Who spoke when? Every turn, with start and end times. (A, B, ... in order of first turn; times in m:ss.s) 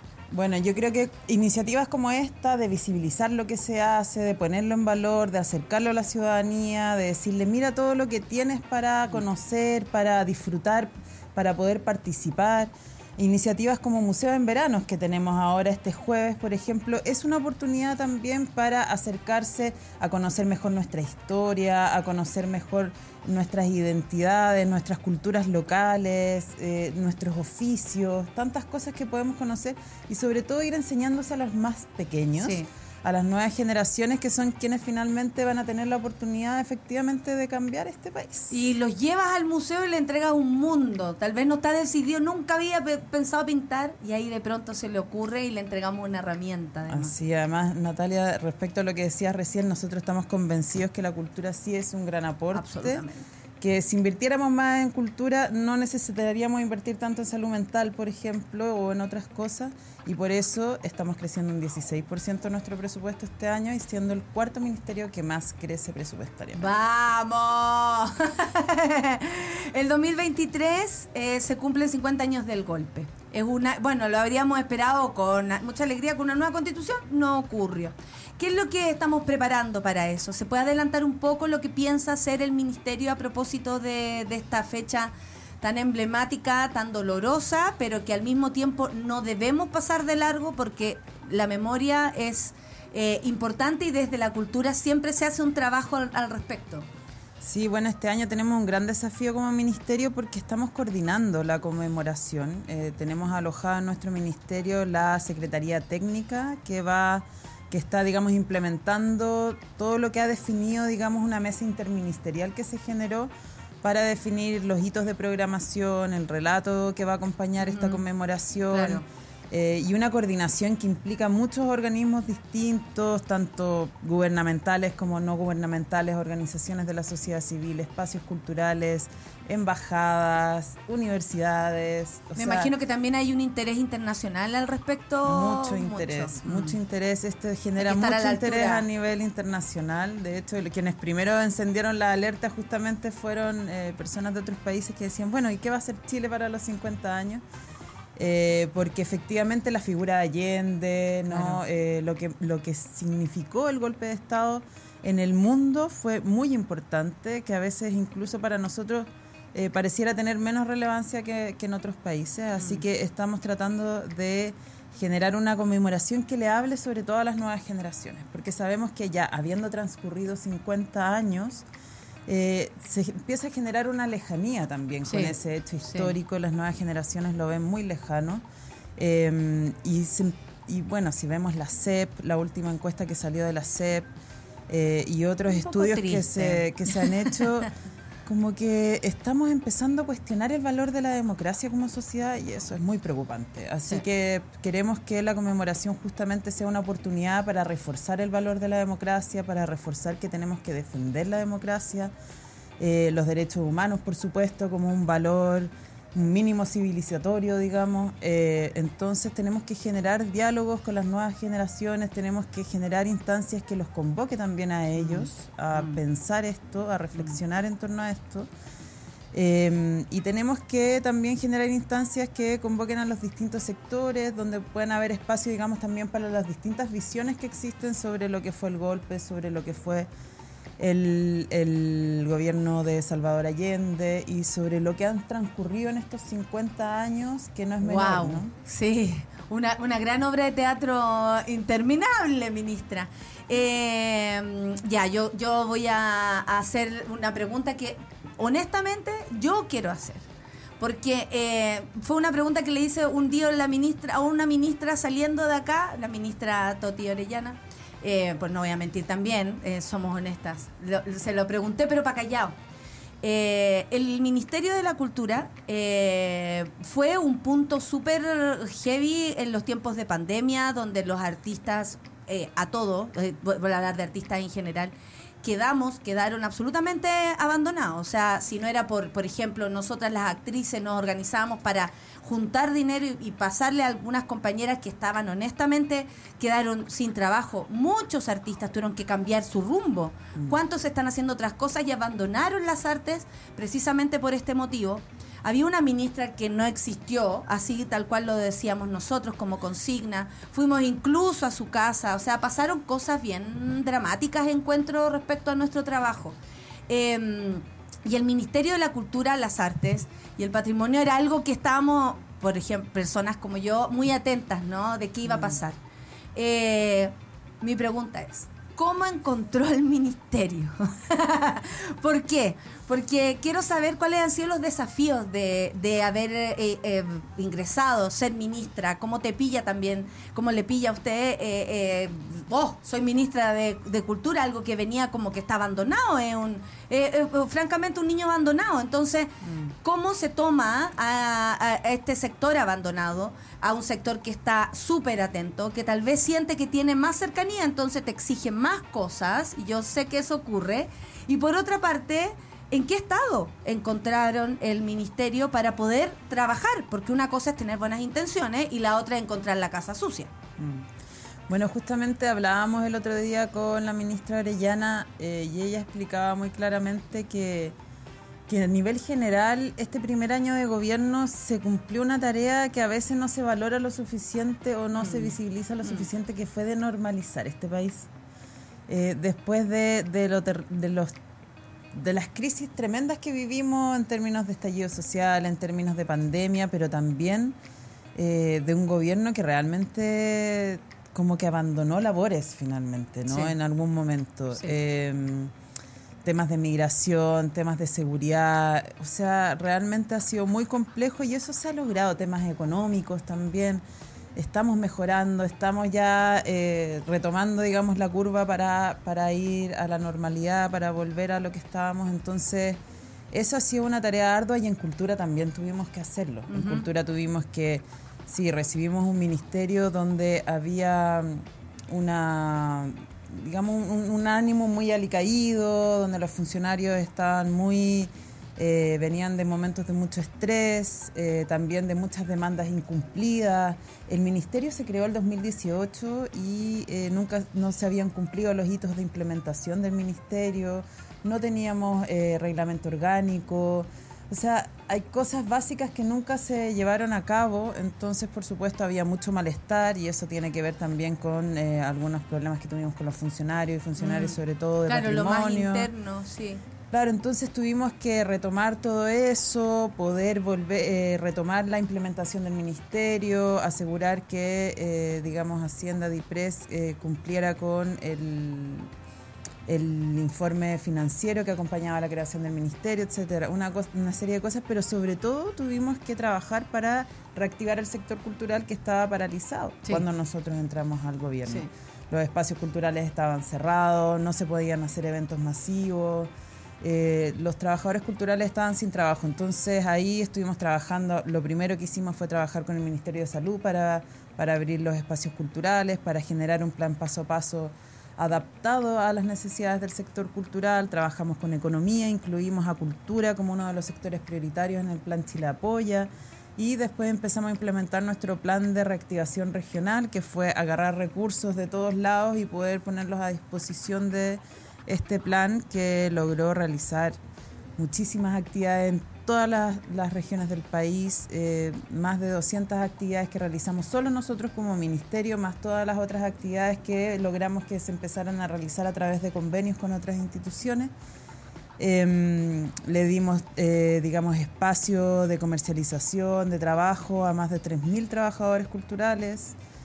0:00.3-0:38.5 A
0:32.4-0:32.7 B
0:38.5-0:47.1 B
0:46.9-0:53.0 A
0:52.5-0:53.3 B
0:53.6-1:06.7 A
1:06.5-1:36.9 B
1:37.4-1:53.3 A
1:53.8-2:12.7 A
1:57.6-1:58.0 B
1:58.7-1:59.0 B
2:12.4-2:16.8 B
2:15.2-2:27.4 A
2:17.8-2:18.8 B
2:28.2-2:51.7 A
2:31.3-2:31.6 B
2:42.6-2:42.8 B
2:52.3-2:58.4 A
2:55.1-2:56.2 B
2:59.0-3:04.1 A
3:04.7-3:07.7 A
3:05.5-3:07.4 B
3:08.3-3:22.1 A
3:22.8-3:38.5 A
3:35.0-3:36.0 B
3:39.3-3:50.1 A
3:50.8-3:58.5 A
3:57.8-4:10.2 B
4:10.8-4:22.6 B
4:23.2-5:06.4 B
5:06.9-5:15.8 B
5:15.2-5:15.6 A
5:16.4-6:00.3 B
5:39.4-5:39.7 A
6:00.6-6:00.9 A
6:01.5-6:07.8 A
6:08.5-6:18.1 A
6:15.0-6:16.1 B
6:18.9-6:21.1 A
6:21.9-6:27.6 A
6:28.2-6:35.5 A
6:33.3-6:33.5 B
6:36.2-6:43.8 A
6:44.4-6:52.8 A
6:53.3-7:35.9 A
6:56.5-6:56.9 B
7:34.0-7:36.6 B
7:36.9-7:48.9 A
7:49.7-8:06.3 A
8:06.8-8:37.2 A
8:37.8-8:50.9 A
8:51.8-8:59.6 A